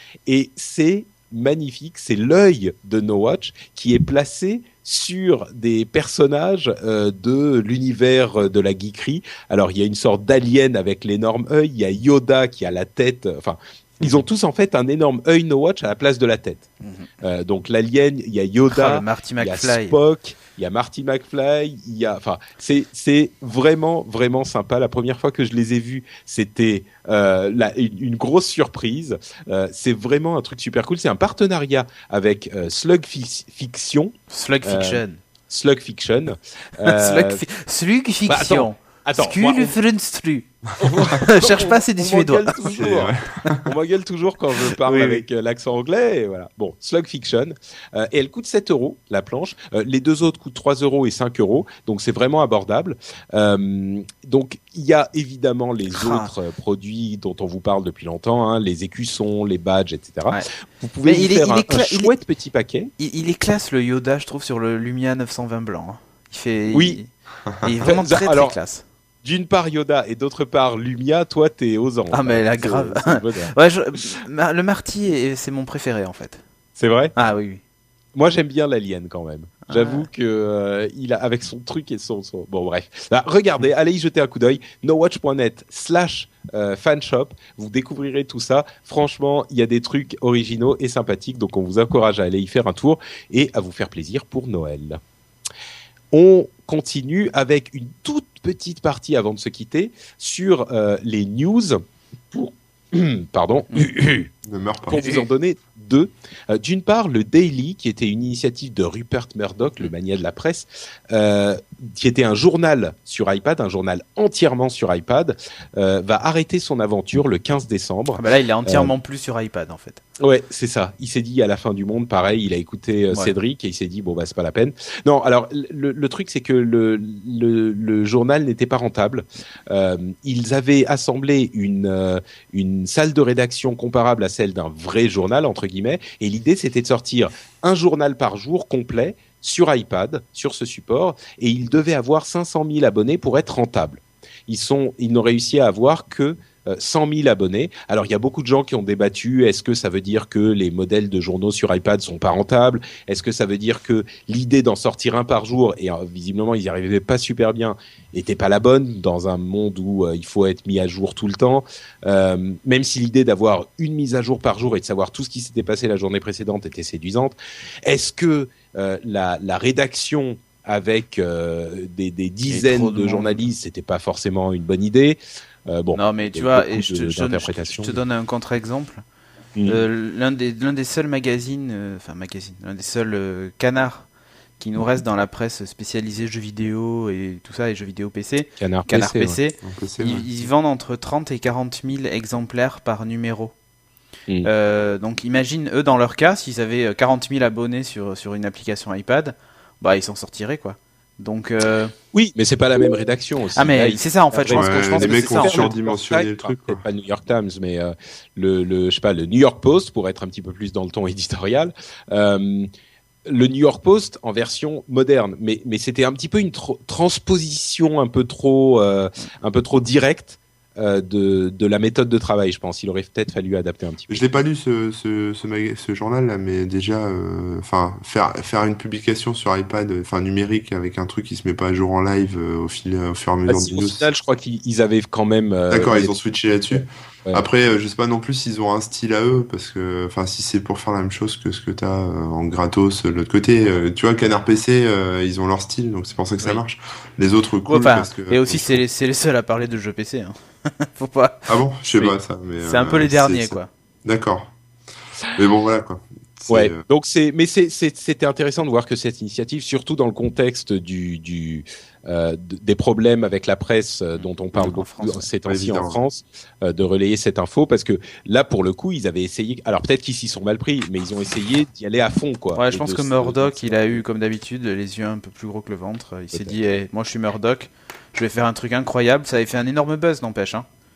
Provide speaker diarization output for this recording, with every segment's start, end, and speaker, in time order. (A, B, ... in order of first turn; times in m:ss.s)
0:00.2-0:16.7 A
0:16.8-0:17.1 B
0:17.2-0:37.4 A
0:18.7-0:20.0 B
0:34.3-0:35.2 B
0:36.8-0:42.7 B
0:38.2-0:39.8 A
0:40.8-1:02.9 A
0:42.7-0:43.6 C
0:44.8-0:45.2 B
0:55.9-0:56.3 B
1:01.0-1:02.1 B
1:03.0-1:07.1 B
1:06.7-1:07.0 A
1:07.6-1:08.8 B
1:07.8-1:08.6 A
1:09.2-1:13.5 A
1:12.1-1:16.4 B
1:16.8-1:17.1 A
1:17.1-1:17.6 B
1:18.1-1:35.0 A
1:19.7-1:20.1 B
1:36.1-1:41.8 A
1:42.3-1:44.3 A
1:44.4-1:45.0 C
1:44.9-1:58.9 A
1:44.9-1:45.2 B
1:58.1-2:00.0 B
2:00.2-2:58.0 A
2:52.5-2:53.5 B
2:55.9-2:59.0 B
2:59.6-2:59.8 A
2:59.7-3:04.1 B
3:04.6-3:13.5 B
3:08.6-3:09.4 A
3:09.6-3:10.4 C
3:14.4-3:21.9 B
3:22.1-3:32.7 A
3:23.6-3:25.7 B
3:24.5-3:26.8 C
3:33.2-3:44.2 A
3:44.1-3:54.0 C
3:53.5-3:56.1 A
3:55.7-4:08.8 C
3:56.7-3:57.4 A
4:07.6-4:13.7 B
4:11.5-4:14.5 C
4:15.3-4:16.8 C
4:16.5-4:34.0 A
4:24.2-4:25.2 B
4:25.4-4:26.0 C
4:32.5-4:40.6 B